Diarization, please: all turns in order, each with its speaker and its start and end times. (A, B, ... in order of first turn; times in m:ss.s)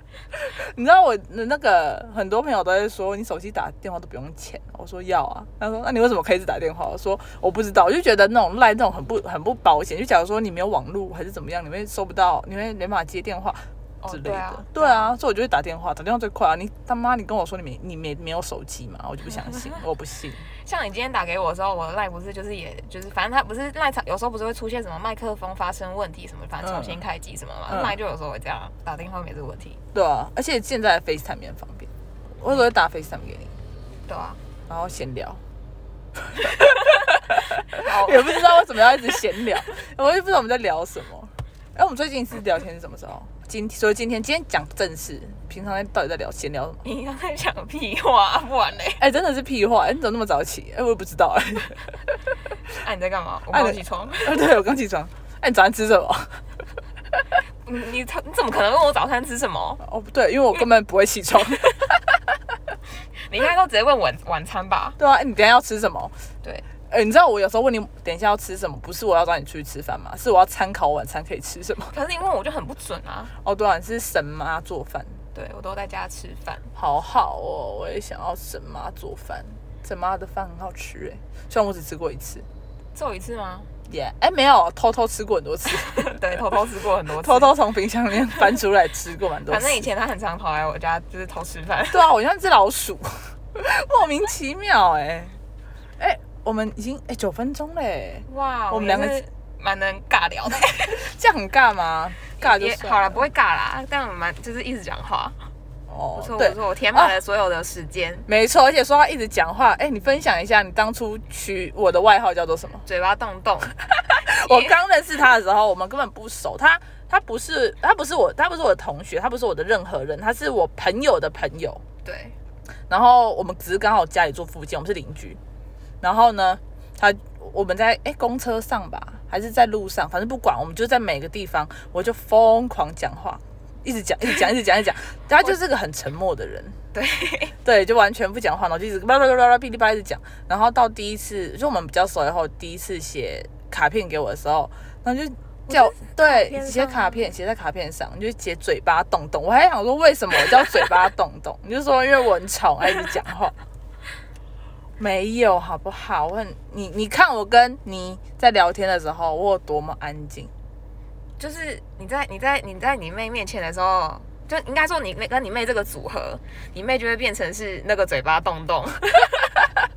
0:00.3-0:20.4 A
0:14.0-0:15.1 B
0:20.6-0:29.8 B
0:26.6-0:27.0 A
0:27.7-0:28.0 A
0:29.9-0:33.5 A
0:34.1-0:34.4 B
0:34.7-0:35.4 A
0:37.7-0:38.6 B
0:37.8-0:46.8 A
0:46.8-0:49.0 B
0:49.0-0:51.9 A
0:52.7-0:54.4 B
0:53.5-0:56.4 A
0:57.6-0:59.8 B
0:59.8-1:02.0 A
1:03.3-1:05.0 B
1:05.0-1:06.1 A
1:06.9-1:11.9 A
1:11.9-1:13.3 B
1:13.4-1:15.2 A
1:15.3-1:16.7 B
1:16.7-1:22.4 A
1:22.9-1:23.7 B
1:23.9-1:26.4 A
1:25.8-1:27.6 B
1:27.1-1:29.9 A
1:29.5-1:32.1 B
1:31.9-1:35.4 A
1:36.0-1:39.2 A
1:38.3-1:41.0 B
1:41.0-1:43.3 A
1:42.4-1:45.4 B
1:45.9-1:47.2 A
1:46.1-1:48.2 B
1:48.3-1:52.8 A
1:52.8-1:54.8 B
1:54.1-2:01.8 A
2:02.0-2:02.3 B
2:02.9-2:05.4 A
2:06.0-2:16.8 A
2:16.9-2:17.6 B
2:17.6-2:33.5 A
2:25.7-2:27.3 B
2:35.0-2:40.5 A
2:41.4-2:49.8 B